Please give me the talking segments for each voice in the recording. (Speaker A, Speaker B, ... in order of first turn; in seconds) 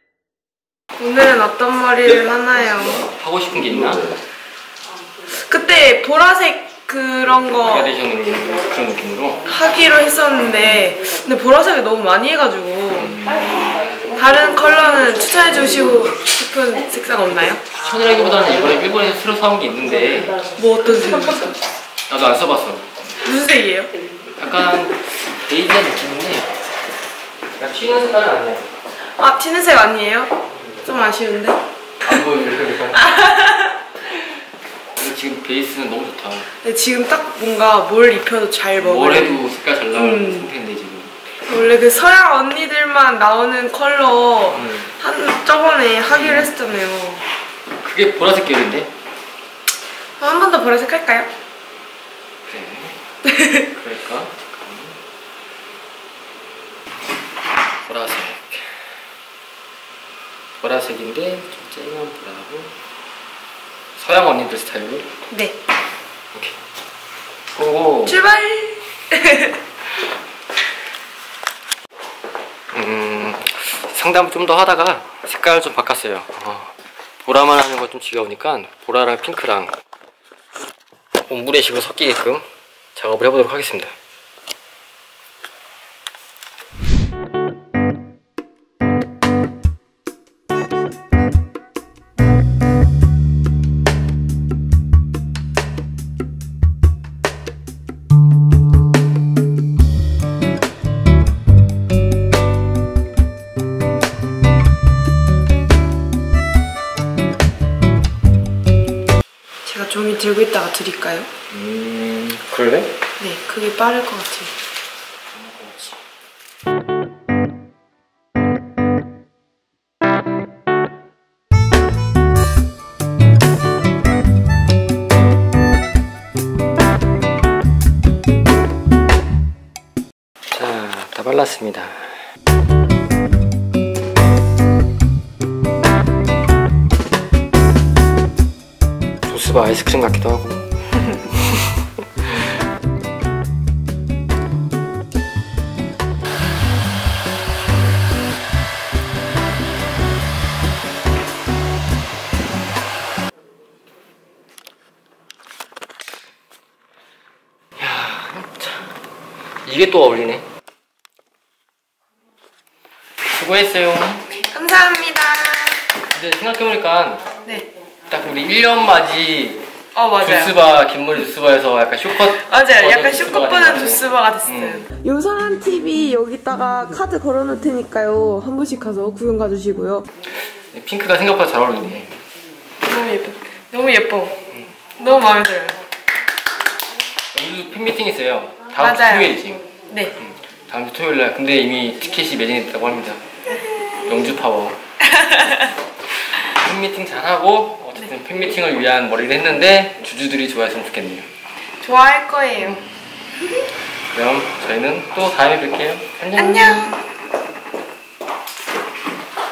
Speaker A: 1.0-3.0, 5.3-8.0, 9.4-13.2, 14.0-17.7, 20.5-21.6, 23.2-24.0, 29.2-31.6, 33.0-33.8, 36.6-39.4, 39.9-40.5, 41.5-47.2, 50.2-51.3, 53.3-53.6, 65.3-65.6, 68.0-69.6, 109.7-111.3, 113.2-114.5, 164.3-165.8, 169.9-170.6, 172.2-180.1, 182.8-184.4, 185.0-185.8, 188.8-190.2, 195.0-195.7, 201.8-202.8, 206.3-207.0
Speaker B: 2.9-4.1, 7.5-9.5, 10.4-10.9, 12.9-14.1, 17.7-20.5, 22.1-22.9, 24.4-26.6, 27.6-28.7, 32.0-33.2, 35.0-36.5, 38.8-41.1, 44.5-44.9, 46.1-46.5, 47.8-48.9, 52.5-53.0, 53.5-55.0, 57.8-58.8, 60.6-62.7, 64.0-65.1, 66.3-66.6, 67.5-68.2, 72.7-76.7, 77.2-79.8, 81.2-82.4, 83.0-84.0, 111.5-113.0, 115.3-116.0, 130.5-132.2, 139.3-142.4, 157.8-158.9, 159.7-160.4, 163.3-164.3, 166.1-167.3, 168.1-169.7, 170.2-174.9, 180.5-182.2, 187.3-189.6, 190.2-193.2, 194.0-194.8, 196.3-201.3, 204.1-206.9